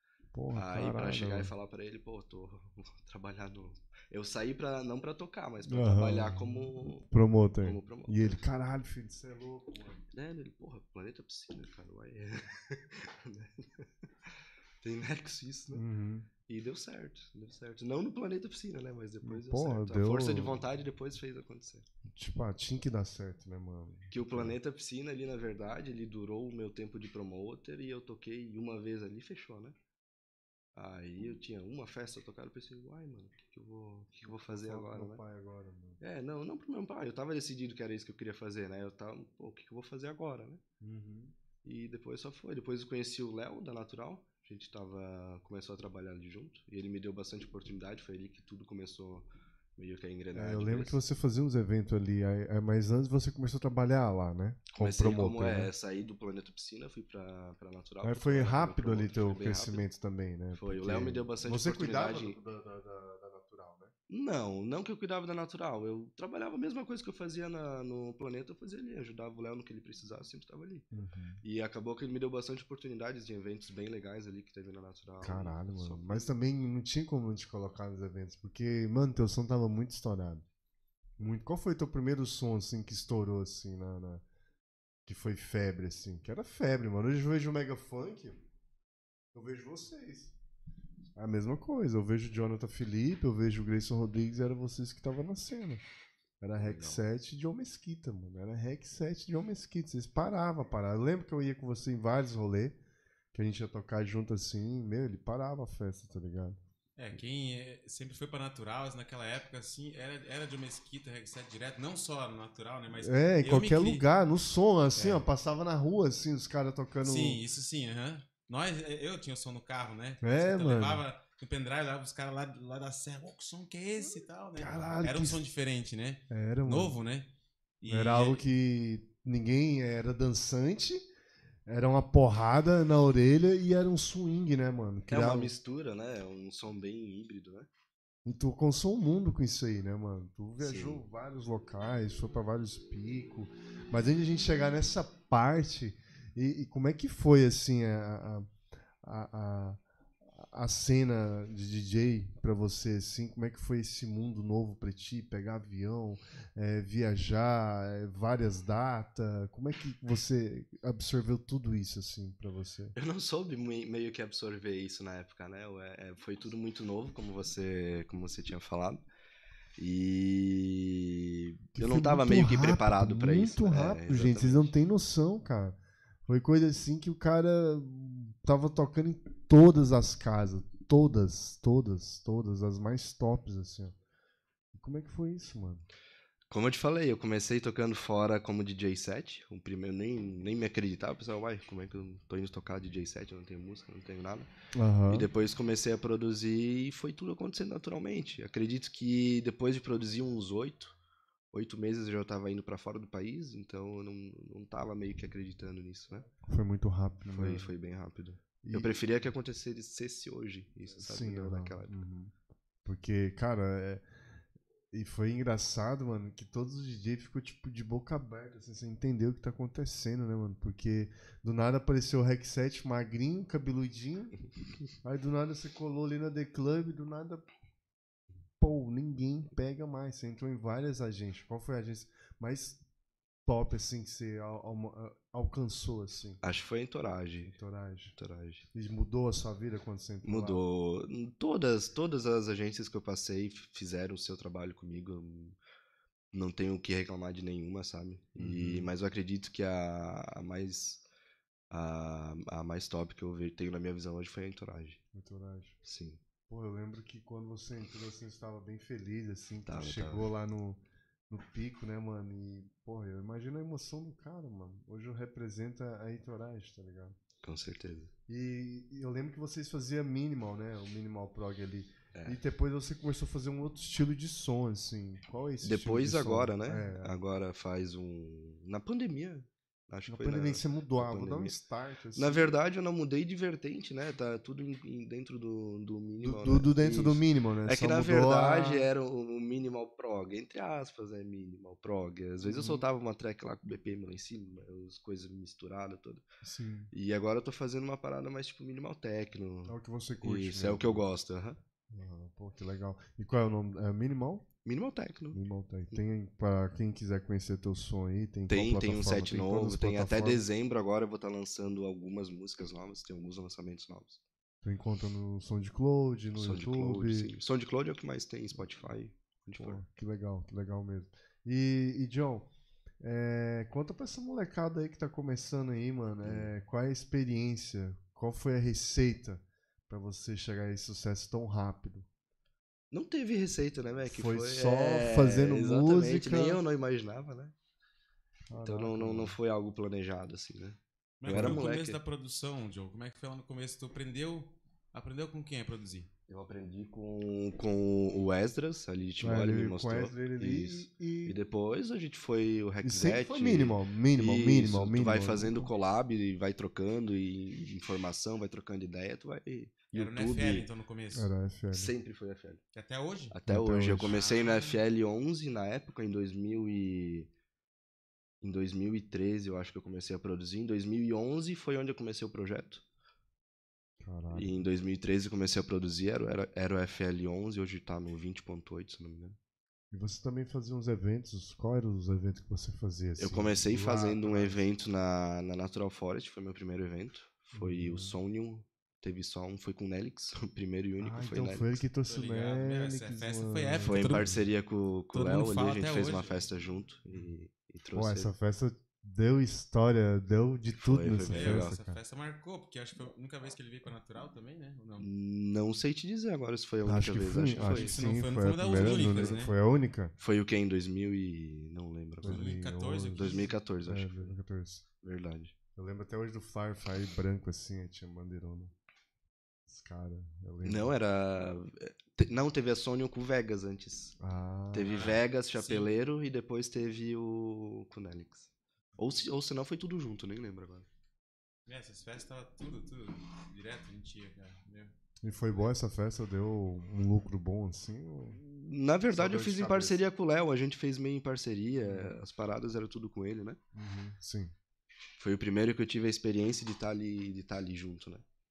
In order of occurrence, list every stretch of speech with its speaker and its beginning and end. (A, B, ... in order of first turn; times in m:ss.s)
0:00.3-0:01.5 A
0:00.5-0:07.0 B
0:05.7-0:10.0 A
0:07.6-0:08.4 B
0:10.1-0:15.8 B
0:15.7-0:16.3 A
0:16.5-0:21.8 B
0:19.2-0:20.6 A
0:22.0-0:24.6 A
0:24.1-0:29.7 B
0:30.7-0:35.2 B
0:34.3-0:36.0 A
0:36.0-0:40.6 B
0:40.8-0:41.3 A
0:41.6-0:51.0 B
0:50.3-0:55.7 A
0:54.7-0:59.8 B
0:58.0-1:03.9 A
1:00.5-1:02.4 B
1:04.1-1:10.8 B
1:10.9-1:11.4 A
1:11.4-1:16.3 B
1:15.2-1:20.4 A
1:21.2-1:24.2 A
1:25.0-1:28.4 A
1:29.3-1:30.3 A
1:31.2-1:35.8 A
1:36.4-1:42.8 A
1:36.6-1:37.0 B
1:43.3-1:46.6 A
1:47.0-1:54.0 C
1:53.0-1:57.4 A
1:55.0-1:55.2 C
1:57.0-2:07.3 C
2:00.2-2:01.0 A
2:04.6-2:05.4 A
2:06.3-2:07.0 A
2:07.8-2:08.4 C
2:07.9-2:11.0 A
2:11.6-2:15.5 A
2:15.1-2:17.7 B
2:18.2-2:28.5 A
2:20.6-2:21.0 B
2:29.0-2:43.0 A
2:43.0-2:49.0 B
2:49.8-2:54.7 B
2:51.8-3:03.9 A
3:04.7-3:05.8 A
3:06.5-3:14.5 B
3:14.7-3:15.3 A
3:15.1-3:20.9 B
3:21.5-3:26.3 B
3:26.4-3:27.7 A
3:27.3-3:31.9 B
3:28.6-3:29.0 A
3:31.0-3:32.3 A
3:32.8-3:34.0 A
3:34.9-3:44.4 A
3:45.0-3:47.4 A
3:48.6-3:52.8 A
3:53.4-3:56.4 A
3:56.4-3:57.5 B
3:57.4-3:58.1 A
3:58.1-3:58.6 B
3:58.7-4:00.6 A
4:00.2-4:05.6 B
4:06.3-4:11.0 B
4:08.4-4:08.9 A
4:11.7-4:15.0 B
4:15.1-4:15.8 A
4:15.8-4:16.2 B
4:16.5-4:27.2 A
4:19.7-4:20.3 B
4:27.4-4:28.1 B
4:28.3-4:37.1 A
4:32.1-4:32.4 B
4:35.6-4:41.6 B
4:40.1-4:42.5 A
4:42.2-4:56.2 B
4:46.2-4:48.9 A
4:52.4-4:52.8 A
4:56.4-4:56.9 A
4:56.9-5:01.6 B
4:59.6-5:01.0 A
5:01.9-5:04.5 A
5:04.6-5:05.4 B
5:05.3-5:10.4 A
5:08.5-5:14.2 B
5:14.6-5:17.3 A
5:16.3-5:19.8 B
5:19.6-5:22.5 A
5:23.0-5:32.1 A
5:26.2-5:26.5 B
5:32.9-5:37.5 B
5:34.0-5:36.6 A
5:38.5-5:39.4 A
5:38.6-5:42.0 B
5:41.2-5:46.1 C
5:41.3-5:41.6 A
5:46.3-6:00.7 B
5:49.2-5:51.4 A
5:52.8-5:55.7 A
5:59.9-6:01.3 C
6:01.1-6:01.9 A
6:01.7-6:02.6 B
6:02.7-6:03.3 C
6:03.3-6:07.3 B
6:03.5-6:04.1 A
6:04.0-6:04.8 C
6:08.4-6:12.8 B
6:14.0-6:14.6 A
6:14.3-6:19.4 B
6:19.9-6:24.6 A
6:23.2-6:31.8 B
6:27.5-6:28.2 A
6:31.0-6:34.4 A
6:32.1-6:34.4 C
6:33.8-6:38.3 B
6:35.1-6:36.5 C
6:37.9-6:42.0 A
6:40.7-6:41.8 B
6:41.3-6:45.1 C
6:45.0-6:48.0 B
6:46.8-6:50.1 A
6:47.6-6:49.5 C
6:48.7-6:49.4 B
6:50.2-6:52.5 B
6:52.2-6:54.8 A
6:52.2-6:53.5 C
6:53.1-6:54.3 B
6:55.0-6:55.5 B
6:55.8-6:58.7 A
6:59.7-7:00.9 A
7:00.6-7:04.2 B
7:04.2-7:05.0 A
7:04.7-7:10.8 B
7:04.9-7:05.9 C
7:11.6-7:14.9 C
7:15.2-7:18.4 A
7:18.3-7:23.6 B
7:19.1-7:20.1 A
7:21.8-7:22.2 A
7:23.7-7:24.5 A
7:25.2-7:28.2 B